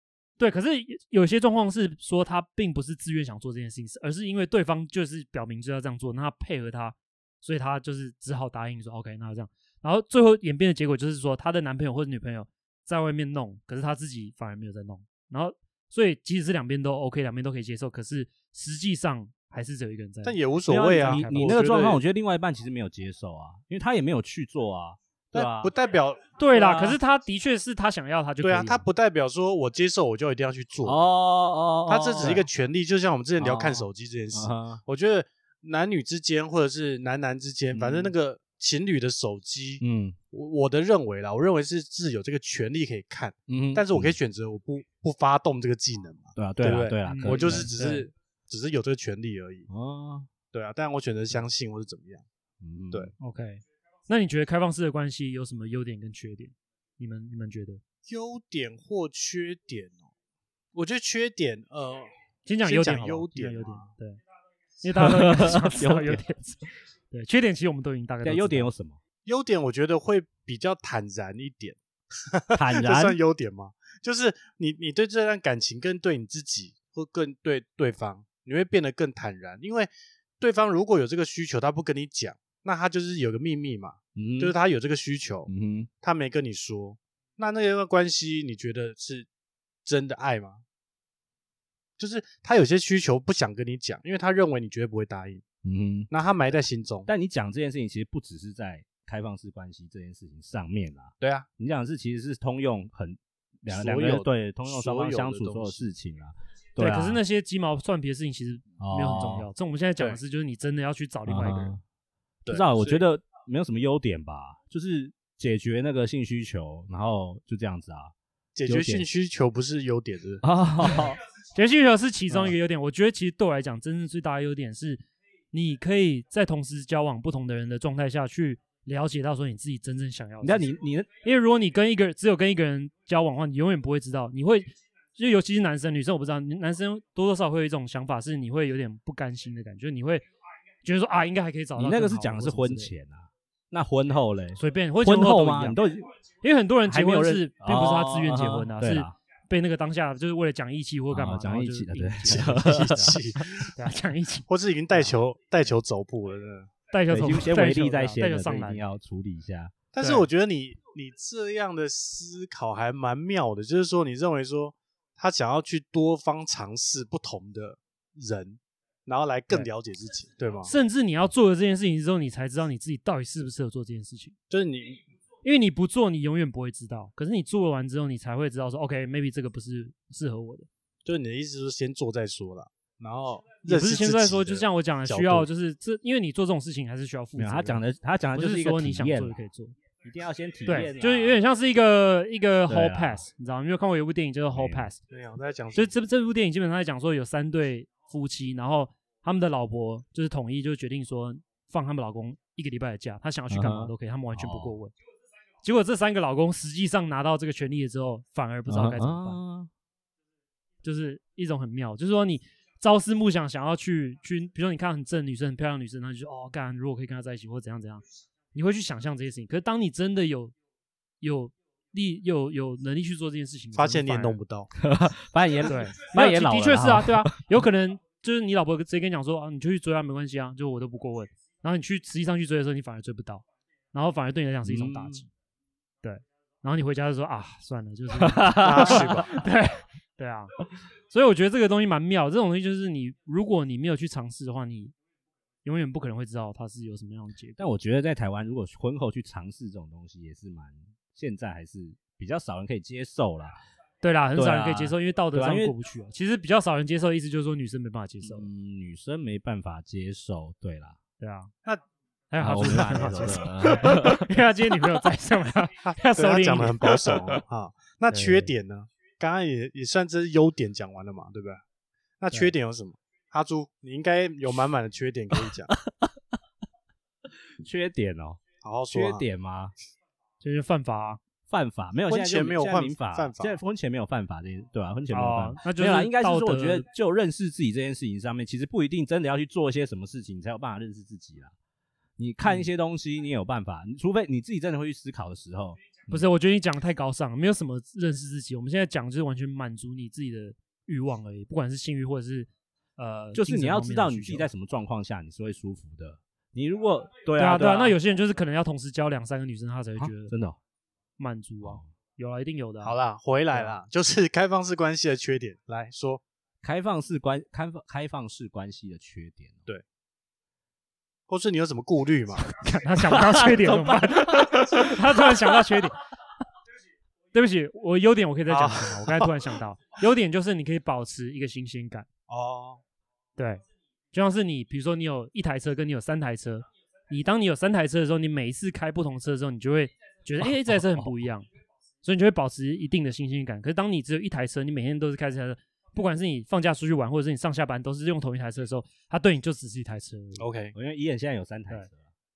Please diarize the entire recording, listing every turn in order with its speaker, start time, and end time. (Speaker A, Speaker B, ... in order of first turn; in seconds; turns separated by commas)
Speaker A: 0.4-20.4, Speaker B: 20.2-22.0, Speaker C: 20.7-25.7, Speaker A: 21.0-21.5, Speaker B: 25.3-26.9, Speaker A: 26.4-28.8, Speaker C: 26.6-26.9, Speaker B: 28.4-31.0, Speaker C: 30.8-32.5, Speaker B: 31.9-49.7, Speaker C: 33.4-34.8, Speaker C: 37.7-38.1, Speaker C: 39.8-40.2, Speaker C: 43.5-44.1, Speaker C: 46.4-47.7, Speaker A: 47.1-48.1, Speaker C: 49.7-50.3, Speaker B: 50.5-52.2, Speaker C: 52.6-53.1, Speaker A: 53.2-57.8, Speaker B: 58.1-60.1, Speaker B: 60.7-62.1, Speaker A: 62.5-64.2, Speaker B: 62.6-63.9, Speaker A: 64.8-68.7, Speaker C: 64.9-66.2, Speaker C: 68.2-69.0, Speaker B: 69.2-85.5, Speaker C: 72.5-73.2, Speaker C: 84.2-84.5, Speaker C: 85.5-85.9, Speaker B: 86.0-89.3, Speaker B: 89.8-90.6, Speaker B: 92.0-95.4, Speaker C: 95.6-96.1, Speaker B: 96.1-97.1, Speaker C: 97.0-107.2, Speaker B: 101.2-101.5, Speaker B: 103.7-105.9, Speaker A: 106.8-111.7, Speaker C: 108.8-109.5, Speaker C: 111.2-111.8, Speaker B: 112.5-113.0, Speaker C: 112.5-118.1, Speaker B: 118.5-120.4, Speaker C: 118.7-119.1, Speaker C: 120.4-121.2, Speaker A: 121.5-130.7, Speaker C: 130.4-131.1, Speaker A: 131.2-140.2, Speaker A: 140.8-142.9, Speaker C: 141.7-146.1, Speaker A: 144.6-145.8, Speaker A: 146.4-155.1, Speaker C: 146.8-149.1, Speaker C: 151.1-153.2, Speaker B: 152.3-153.7, Speaker B: 154.5-156.7, Speaker A: 156.9-158.8, Speaker C: 157.1-159.7, Speaker B: 159.9-170.7, Speaker A: 160.0-160.2, Speaker A: 170.6-174.3, Speaker B: 174.5-175.0, Speaker A: 175.4-180.7, Speaker B: 181.0-185.5, Speaker A: 183.6-187.8, Speaker C: 187.4-189.4, Speaker A: 188.3-189.8, Speaker C: 190.0-191.4, Speaker A: 190.7-195.0, Speaker C: 192.7-193.2, Speaker C: 194.5-194.9, Speaker B: 195.1-195.9, Speaker A: 195.7-204.9, Speaker C: 203.5-204.8, Speaker A: 205.6-209.4, Speaker C: 208.7-209.7, Speaker A: 210.8-218.0, Speaker A: 218.5-220.5, Speaker A: 221.2-224.4, Speaker B: 223.7-224.7, Speaker C: 224.7-227.3, Speaker A: 225.6-235.3, Speaker C: 234.6-235.2, Speaker A: 236.0-240.5, Speaker C: 238.2-239.3, Speaker B: 238.6-239.3, Speaker A: 241.1-244.9, Speaker A: 245.6-247.6, Speaker C: 247.6-253.6, Speaker A: 254.0-258.5, Speaker C: 254.3-255.7, Speaker C: 258.2-261.0, Speaker A: 261.2-261.5, Speaker A: 262.3-267.0, Speaker C: 262.4-264.3, Speaker B: 262.6-263.4, Speaker B: 265.8-271.6, Speaker A: 268.1-268.5, Speaker B: 272.2-275.7, Speaker C: 275.4-276.2, Speaker C: 277.6-278.4, Speaker B: 278.6-279.2, Speaker C: 278.9-279.7, Speaker A: 280.4-281.2, Speaker C: 281.5-291.5, Speaker B: 282.1-283.6, Speaker A: 285.1-286.9, Speaker C: 292.2-296.2, Speaker A: 296.1-304.5, Speaker C: 303.3-307.9, Speaker A: 307.4-310.3, Speaker C: 310.0-310.6, Speaker A: 311.2-312.9, Speaker B: 312.8-316.2, Speaker C: 316.6-319.6, Speaker B: 321.3-322.4, Speaker A: 322.4-326.0, Speaker C: 323.1-325.6, Speaker A: 327.3-332.1, Speaker B: 328.5-329.3, Speaker B: 332.3-332.8, Speaker A: 333.4-341.4, Speaker C: 340.4-341.1, Speaker A: 342.0-350.5, Speaker B: 350.4-350.7, Speaker C: 350.7-352.1